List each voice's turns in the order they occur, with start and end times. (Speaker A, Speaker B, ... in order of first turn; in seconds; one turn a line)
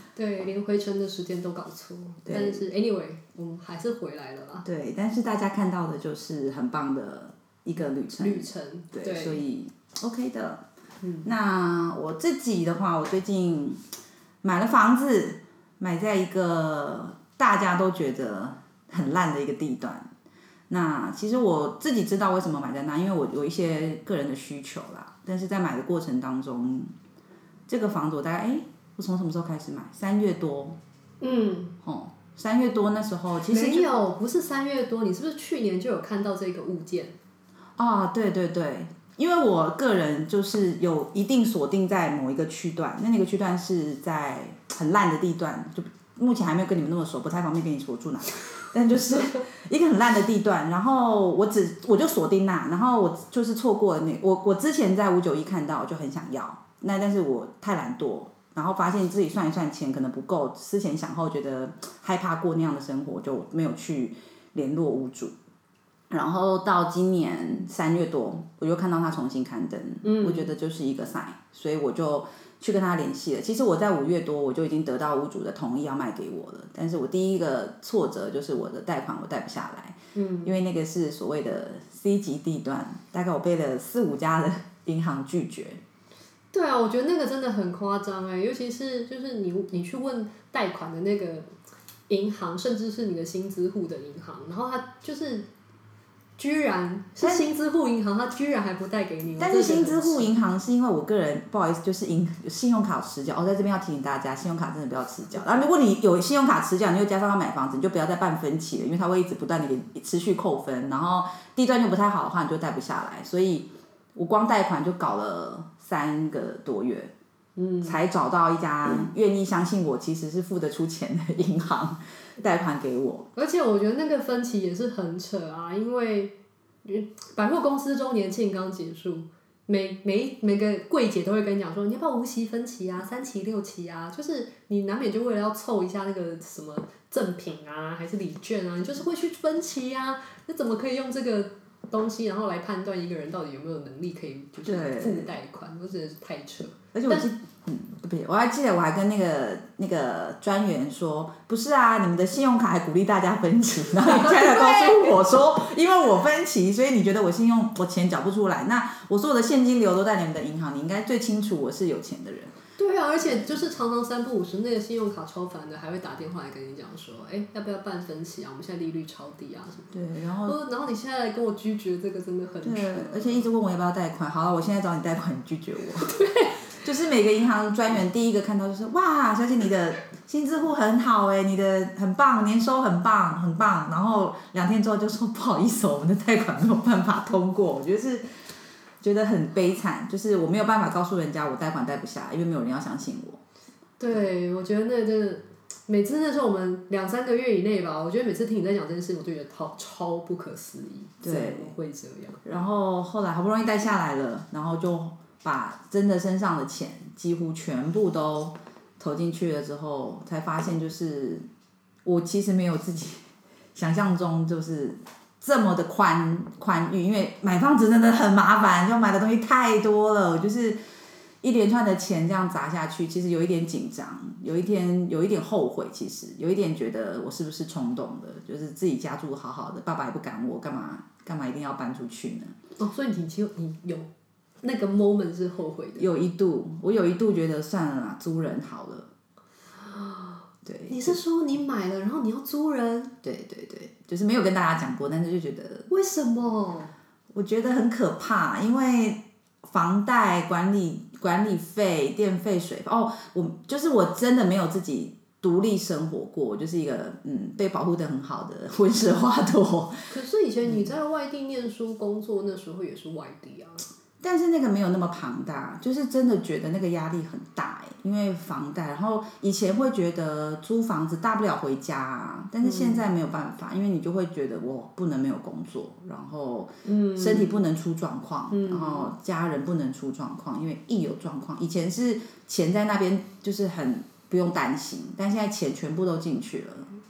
Speaker A: 0.1-4.7
Speaker B: 2.3-2.7
Speaker B: 4.6-10.6
Speaker A: 8.1-9.4
Speaker A: 11.0-11.3
Speaker B: 11.2-13.8
Speaker B: 14.4-20.1
Speaker B: 20.7-26.9
Speaker B: 27.7-30.8
Speaker A: 31.2-31.8
Speaker B: 31.8-33.9
Speaker A: 33.5-37.2
Speaker B: 37.8-65.3
Speaker B: 66.1-85.8
Speaker A: 70.0-70.5
Speaker A: 80.2-80.5
Speaker A: 86.5-91.5
Speaker A: 92.1-95.5
Speaker A: 96.4-100.3
Speaker B: 99.4-117.1
Speaker A: 117.6-118.0
Speaker B: 117.8-123.3
Speaker A: 123.3-147.3
Speaker B: 144.7-145.3
Speaker B: 146.9-162.6
Speaker A: 154.0-155.2
Speaker A: 162.8-173.5
Speaker B: 163.2-163.6
Speaker B: 169.9-170.6
Speaker B: 172.6-176.2
Speaker A: 176.0-176.7
Speaker B: 176.8-188.2
Speaker B: 189.0-193.4
Speaker A: 194.0-202.4
Speaker B: 201.2-201.8
Speaker B: 202.4-211.5
Speaker B: 212.1-220.8
Speaker B: 221.4-232.5
Speaker A: 232.8-234.1
Speaker A: 234.6-236.1
Speaker B: 236.0-239.1
Speaker A: 239.8-243.1
Speaker B: 240.7-241.2
Speaker B: 243.2-245.9
Speaker A: 245.9-246.9
Speaker B: 247.3-260.1
Speaker A: 260.1-263.9
Speaker B: 264.2-286.9
Speaker A: 272.6-273.1
Speaker A: 276.9-277.6
Speaker A: 278.5-279.1